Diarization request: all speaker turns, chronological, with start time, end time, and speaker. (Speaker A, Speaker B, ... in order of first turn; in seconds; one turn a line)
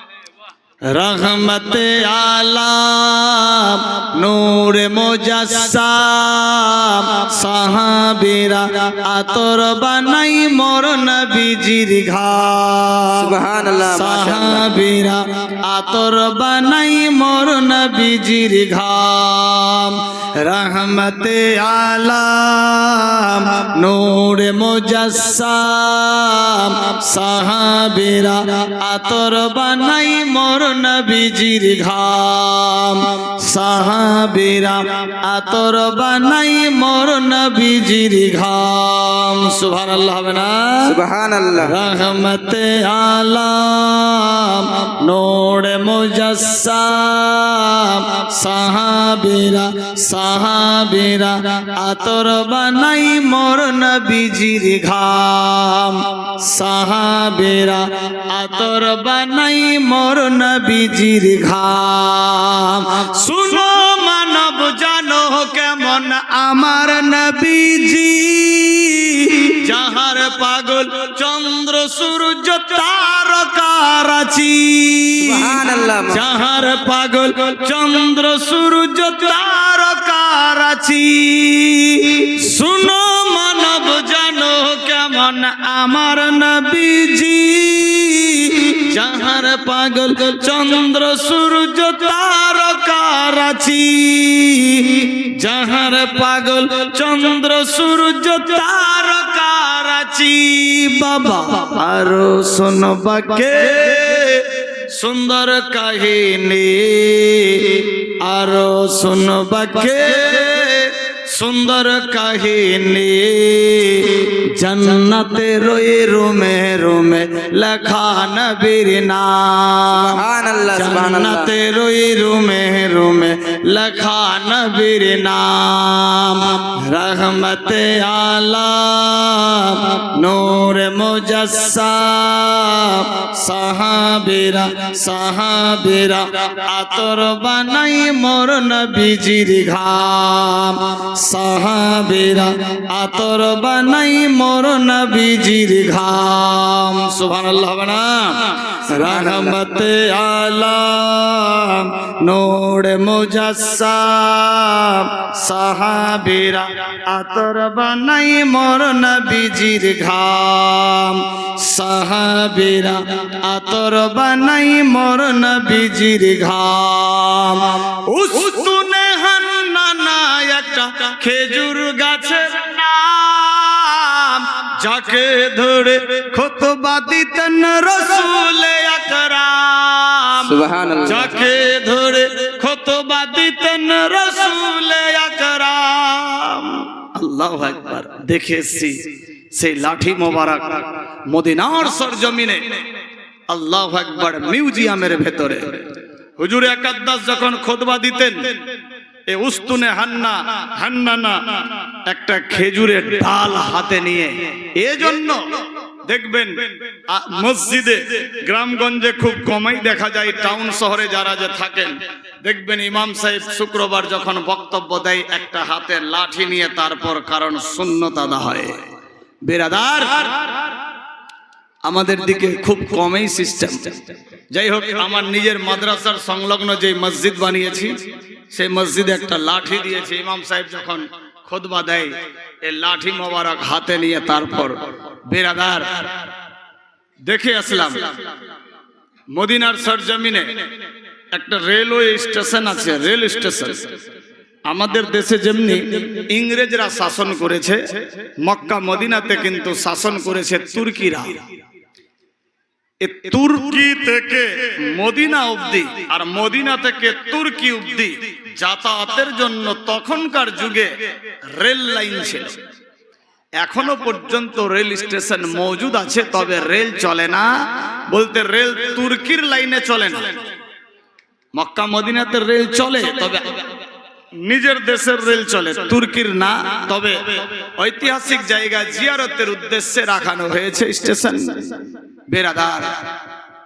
Speaker A: 0.9-13.3
Speaker B: 13.2-14.7
Speaker A: 13.9-40.9
Speaker B: 40.9-41.7
Speaker A: 41.6-75.5
Speaker B: 75.2-76.2
Speaker A: 76.1-120.2
Speaker B: 119.9-121.5
Speaker A: 120.7-180.5
Speaker B: 148.9-149.6
Speaker B: 180.4-181.3
Speaker A: 181.0-189.0
Speaker A: 189.5-192.8
Speaker A: 193.5-198.6
Speaker A: 199.3-218.8
Speaker A: 219.4-220.4
Speaker A: 221.8-236.1
Speaker A: 237.3-238.2
Speaker A: 239.3-240.5
Speaker A: 241.3-243.9
Speaker A: 244.7-247.8
Speaker A: 248.4-251.4
Speaker A: 253.0-261.0
Speaker A: 261.6-262.6
Speaker A: 263.6-267.5
Speaker A: 268.1-270.3
Speaker A: 271.5-273.6
Speaker A: 274.4-283.1